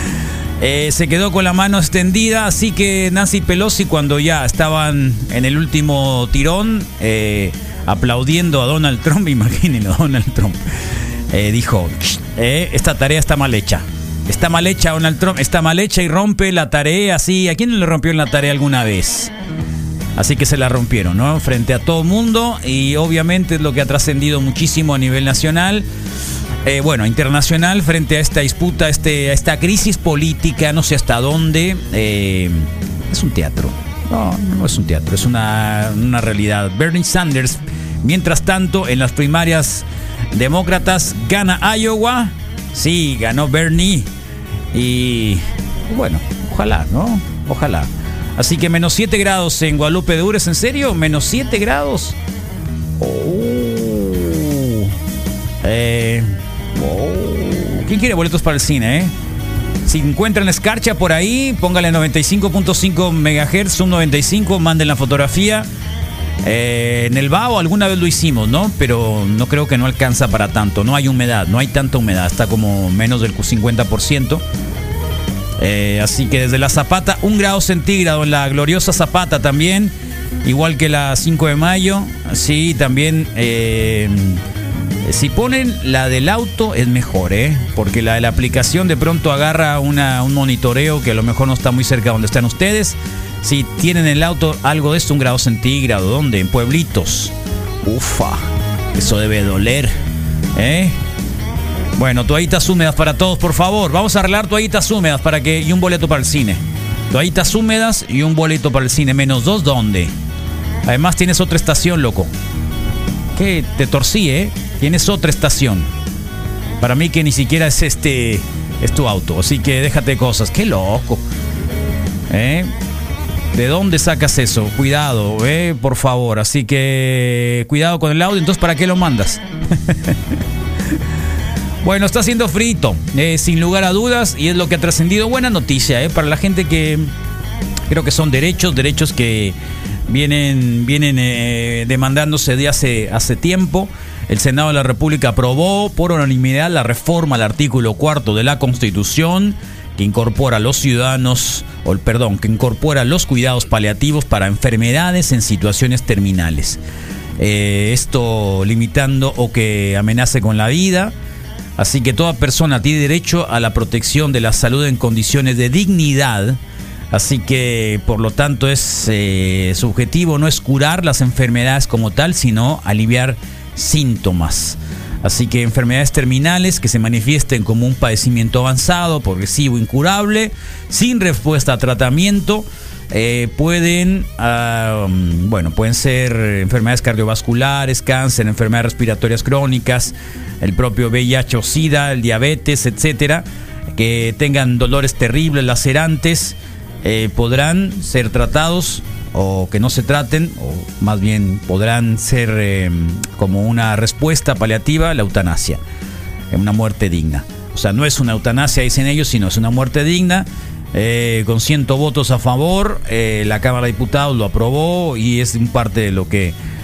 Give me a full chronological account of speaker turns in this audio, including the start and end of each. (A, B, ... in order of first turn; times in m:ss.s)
0:00.6-0:10.6 A
0:11.3-0:19.3 A
0:20.2-0:25.9 A
0:26.6-0:44.1 A
0:44.7-0:52.2 A
0:53.0-0:54.9 A
0:55.6-0:59.1 A
0:59.8-1:05.7 A
1:06.4-1:14.4 A
1:15.6-1:24.4 A
1:25.0-1:39.9 A
1:40.6-1:41.0 A
1:42.0-1:50.1 A
1:50.8-1:52.3 A
1:53.4-1:55.9 A
1:56.8-2:01.2 A
2:02.3-2:02.7 A
2:03.5-2:10.1 A
2:11.8-2:17.1 A
2:17.9-2:19.6 A
2:20.1-2:36.8 A
2:37.4-2:41.1 A
2:41.8-2:46.6 A
2:47.1-3:13.4 A
3:14.0-3:25.8 A
3:26.5-3:36.5 A